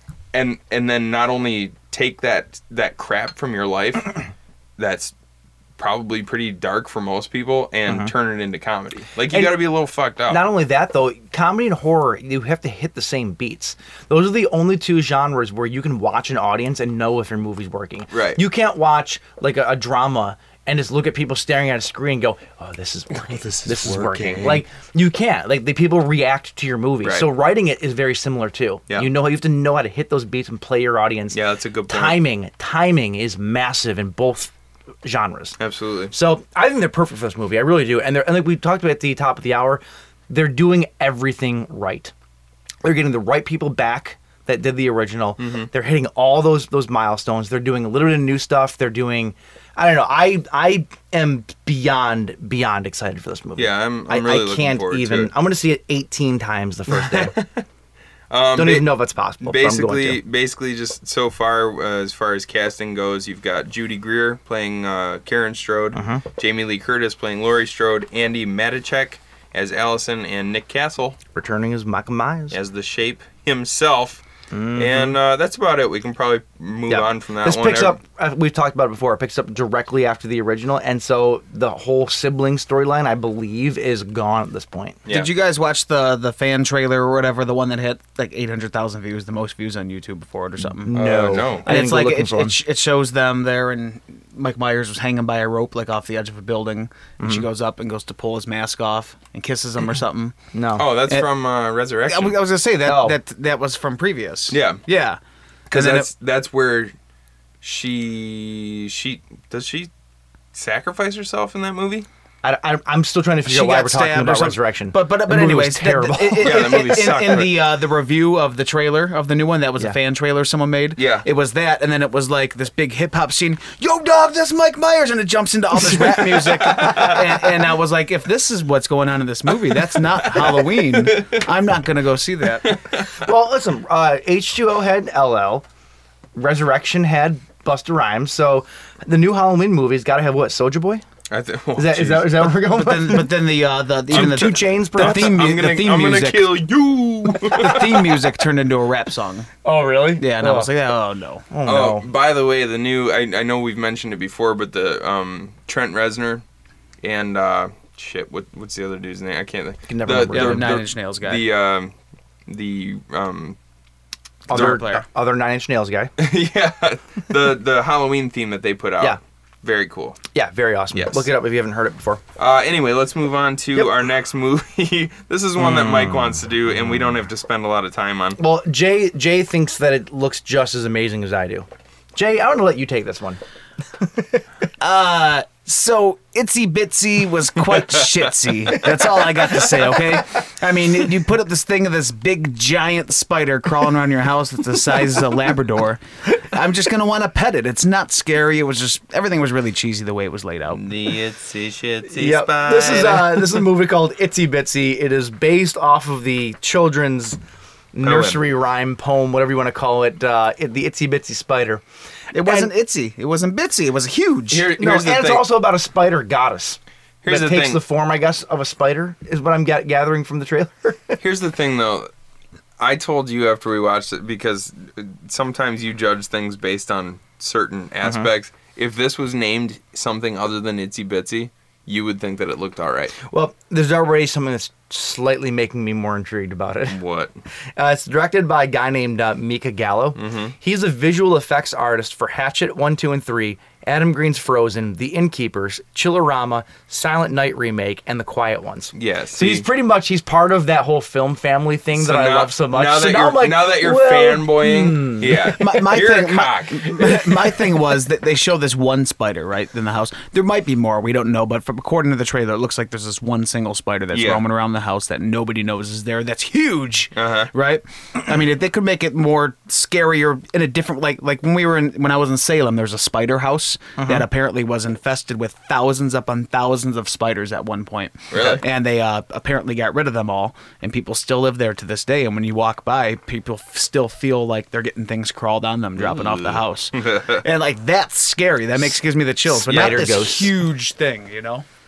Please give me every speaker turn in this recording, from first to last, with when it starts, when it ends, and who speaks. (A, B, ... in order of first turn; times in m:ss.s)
0:00.3-0:04.3 A
0:04.8-0:05.1 A
0:05.8-0:10.4 A
0:09.3-0:09.6 B
0:10.3-0:34.5 B
0:18.1-0:18.4 A
0:23.2-0:24.6 A
0:27.0-0:27.3 A
0:31.3-0:32.2 A
0:35.0-0:35.6 B
0:35.6-0:36.1 A
0:36.1-0:42.1 B
0:42.8-0:57.4 B
0:45.4-0:45.7 A
0:53.6-0:55.3 A
0:57.0-0:57.6 A
0:58.3-1:11.2 A
0:58.6-1:00.2 B
1:05.9-1:06.2 B
1:11.3-1:12.6 B
1:12.5-1:14.2 A
1:14.5-1:15.2 B
1:14.7-1:18.0 A
1:16.9-1:25.0 B
1:25.0-1:25.3 A
1:25.1-1:40.4 C
1:30.6-1:32.6 B
1:30.9-1:31.7 A
1:37.2-1:37.5 B
1:40.5-1:41.0 B
1:40.8-1:42.4 A
1:40.9-1:41.3 C
1:42.1-1:45.2 C
1:42.8-1:43.2 B
1:44.5-1:44.8 A
1:45.7-1:46.1 C
1:45.7-1:46.9 A
1:47.6-1:49.9 A
1:50.5-1:52.1 A
1:52.4-1:57.5 B
1:53.5-2:12.8 C
1:56.4-1:57.6 A
2:01.0-2:01.3 A
2:05.9-2:07.2 B
2:10.4-2:11.4 A
2:12.6-2:13.1 A
2:13.2-2:15.6 B
2:16.4-2:21.0 B
2:21.3-2:22.5 A
2:21.8-2:23.3 B
2:22.6-2:26.6 C
2:24.1-2:25.4 B
2:24.1-2:28.1 A
2:27.5-2:29.5 C
2:29.6-2:30.7 B
2:30.2-2:31.4 C
2:31.5-2:32.1 B
2:31.6-2:36.4 A
2:37.0-2:41.9 A
2:39.9-2:40.7 B
2:40.3-2:41.4 C
2:42.5-2:43.6 A
2:44.5-2:46.1 B
2:44.5-2:45.0 C
2:46.2-2:50.2 A
2:50.3-2:52.2 B
2:50.9-2:51.3 A
2:52.4-2:58.4 A
2:55.6-2:56.4 B
2:58.4-3:03.4 B
3:04.0-3:04.4 B
3:04.8-3:20.8 C
3:20.7-3:23.6 A
3:22.1-3:27.4 B
3:27.9-3:31.8 B
3:28.0-3:28.4 A
3:32.3-3:34.7 C
3:32.4-3:32.7 B
3:34.5-3:35.5 A
3:34.8-3:41.2 B
3:37.2-3:37.8 A
3:41.2-3:42.1 A
3:42.8-3:53.2 A
3:48.0-3:48.3 B
3:53.2-3:57.0 B
3:56.9-3:57.4 A
3:57.8-4:15.6 B
4:00.2-4:00.5 A
4:09.0-4:09.7 A
4:12.0-4:17.4 A
4:15.5-4:51.6 C
4:24.1-4:24.4 A
4:27.2-4:27.5 A
4:34.0-4:34.3 B
4:38.3-4:38.6 A
4:46.0-4:47.4 A
4:49.5-4:50.5 B
4:49.7-4:50.1 A